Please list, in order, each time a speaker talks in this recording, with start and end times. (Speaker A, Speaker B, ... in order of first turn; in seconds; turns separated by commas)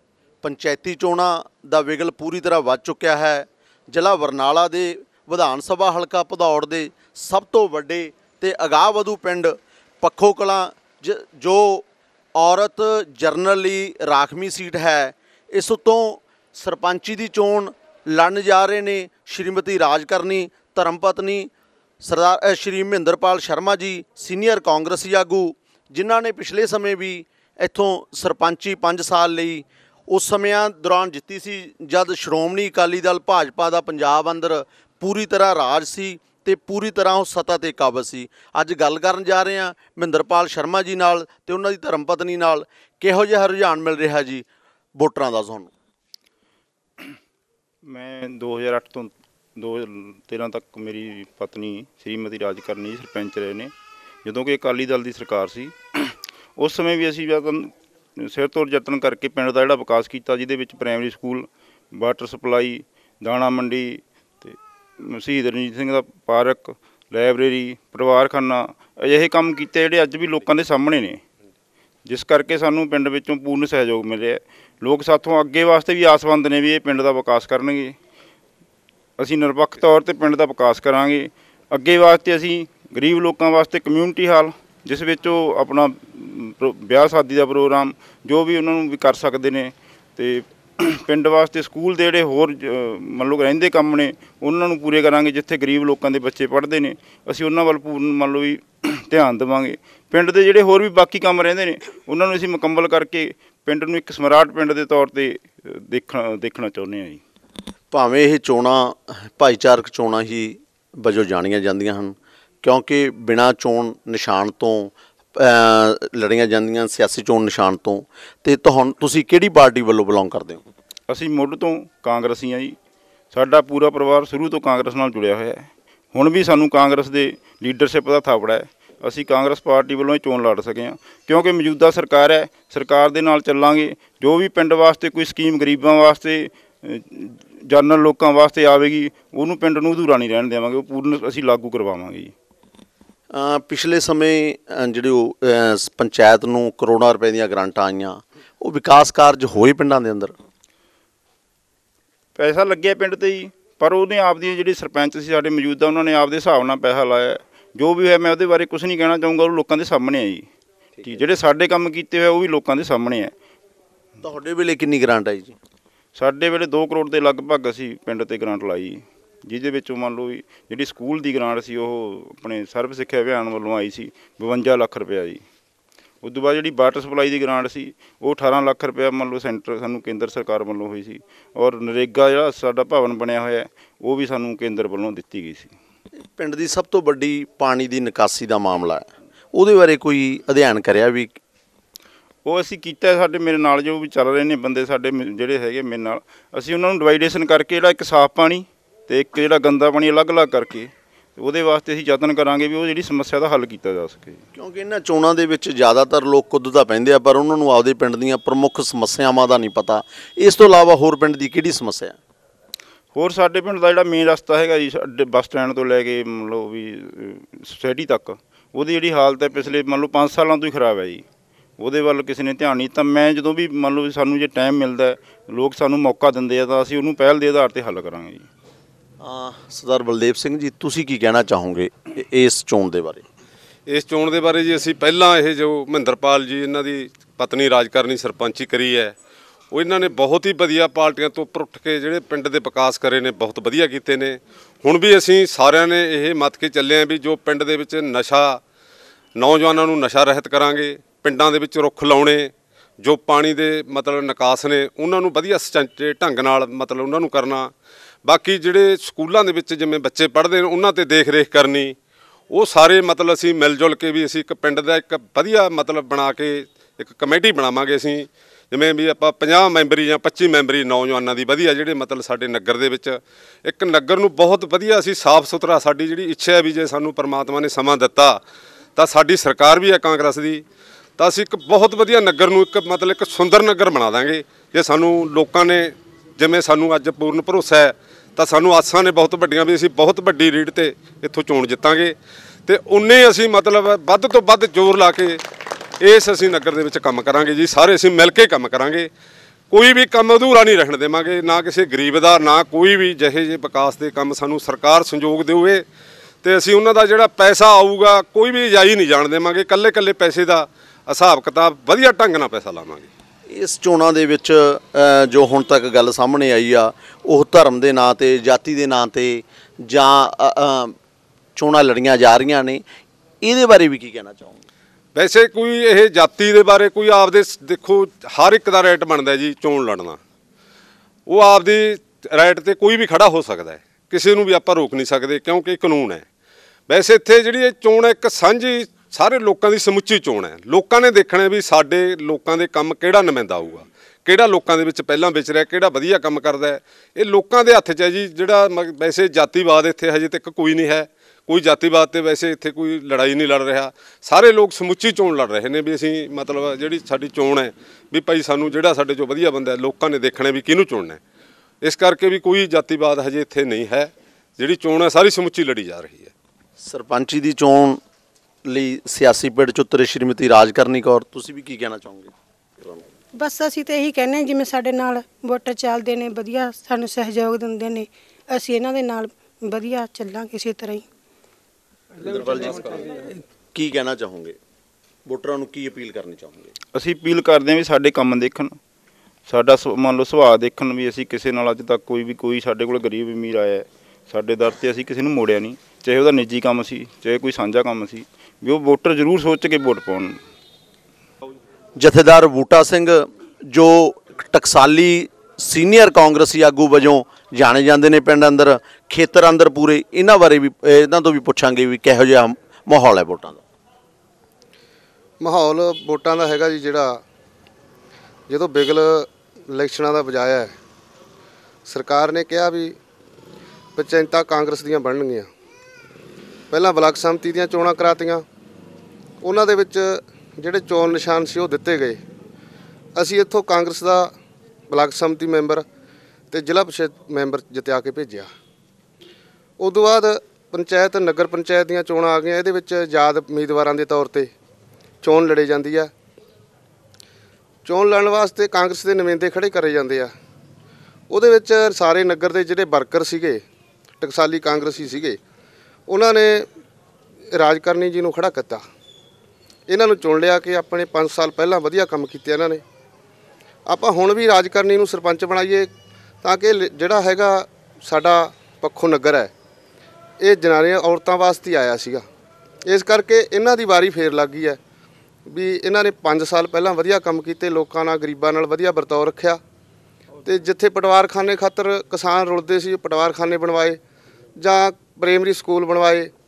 Speaker A: 0.4-11.8, Speaker A: 12.4-21.5, Speaker A: 22.0-45.7, Speaker B: 47.9-53.7, Speaker B: 54.2-71.2, Speaker B: 72.1-78.0, Speaker B: 79.2-107.2, Speaker A: 107.9-120.6, Speaker B: 121.1-122.8, Speaker B: 123.3-142.3, Speaker A: 143.3-150.3, Speaker B: 152.3-160.5, Speaker B: 161.0-163.3, Speaker A: 164.2-165.6, Speaker B: 166.2-175.4, Speaker B: 176.2-185.7, Speaker A: 186.2-191.4, Speaker B: 192.4-204.4, Speaker A: 204.5-212.2, Speaker B: 213.1-221.2, Speaker B: 221.8-228.5, Speaker A: 229.2-233.2, Speaker C: 233.9-239.1, Speaker C: 239.7-248.6, Speaker C: 249.4-257.7, Speaker C: 258.2-262.0, Speaker C: 262.5-278.4, Speaker C: 279.0-280.6, Speaker C: 281.2-295.4, Speaker C: 296.0-299.1, Speaker C: 299.7-305.9, Speaker C: 306.4-313.1, Speaker A: 313.5-320.9, Speaker A: 321.6-322.8, Speaker A: 323.4-324.6, Speaker C: 325.1-330.2, Speaker C: 331.3-336.2, Speaker C: 336.9-361.2, Speaker C: 361.8-366.3, Speaker A: 366.8-368.0, Speaker A: 368.7-373.1, Speaker D: 373.3-381.1, Speaker A: 382.2-384.6, Speaker A: 385.3-386.7, Speaker B: 386.9-388.8, Speaker B: 389.5-400.4, Speaker A: 402.0-413.6, Speaker E: 415.4-417.2, Speaker E: 418.5-420.7, Speaker E: 421.9-423.0, Speaker E: 424.0-425.5, Speaker E: 426.7-428.4, Speaker E: 429.4-432.2, Speaker E: 433.1-434.3, Speaker E: 434.9-435.9, Speaker E: 436.5-438.5, Speaker E: 439.8-444.5, Speaker E: 445.2-446.1, Speaker E: 447.9-450.3, Speaker E: 451.3-453.6, Speaker E: 454.2-455.4, Speaker E: 456.1-456.7, Speaker E: 457.5-458.8, Speaker E: 459.9-462.8, Speaker E: 463.9-465.9, Speaker E: 466.4-469.5, Speaker E: 470.4-472.2, Speaker E: 472.9-474.8, Speaker E: 475.5-479.6, Speaker E: 480.4-484.0, Speaker E: 484.6-486.3